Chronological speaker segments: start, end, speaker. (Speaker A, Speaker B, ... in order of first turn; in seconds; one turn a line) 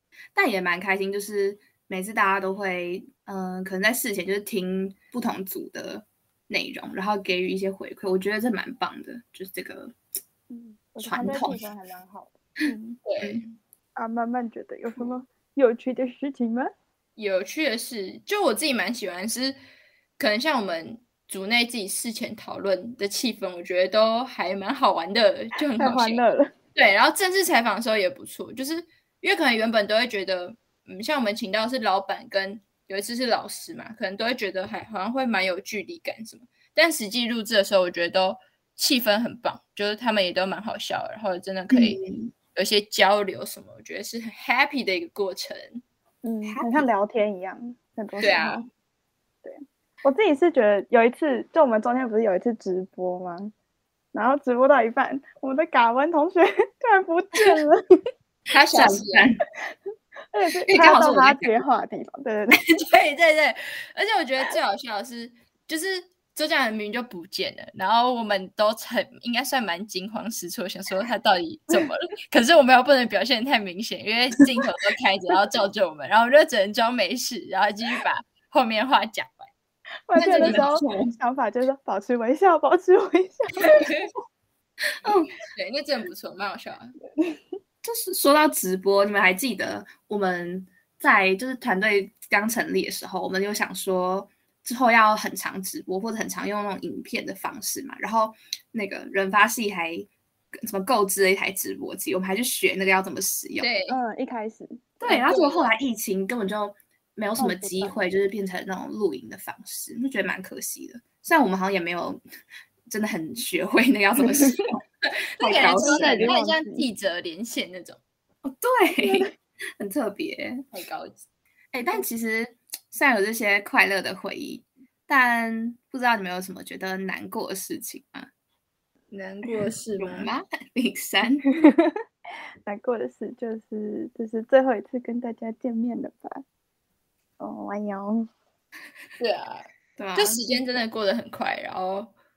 Speaker A: 0.3-9.9
Speaker B: 10.5-13.0
Speaker A: 11.0-11.7
Speaker C: 13.0-13.5
Speaker B: 14.0-16.7
Speaker C: 17.2-19.6
Speaker C: 20.2-26.2
Speaker B: 25.8-26.5
Speaker C: 26.7-45.8
Speaker A: 41.7-42.3
Speaker B: 46.2-48.6
Speaker A: 46.5-46.9
Speaker C: 48.2-48.6
Speaker B: 49.4-53.5
Speaker B: 54.1-57.8
Speaker C: 58.5-59.3
Speaker A: 58.7-59.4
Speaker B: 60.3-62.6
Speaker A: 60.7-61.5
Speaker C: 62.5-79.5
Speaker B: 80.1-83.8
Speaker A: 80.2-81.2
Speaker C: 80.2-80.7
Speaker C: 83.7-84.1
Speaker A: 85.0-85.3
Speaker C: 85.3-86.9
Speaker A: 87.8-100.1
Speaker A: 100.6-103.7
Speaker C: 103.6-104.0
Speaker B: 103.9-104.8
Speaker A: 105.0-112.2
Speaker C: 105.0-105.7
Speaker B: 107.4-108.0
Speaker A: 112.9-114.8
Speaker C: 115.4-118.0
Speaker A: 115.4-116.3
Speaker B: 115.5-116.8
Speaker A: 118.4-120.6
Speaker B: 119.0-119.3
Speaker C: 120.7-121.2
Speaker A: 121.7-128.3
Speaker C: 129.1-130.3
Speaker A: 130.0-131.4
Speaker B: 132.7-136.4
Speaker B: 137.4-138.3
Speaker C: 139.2-142.1
Speaker A: 140.0-140.4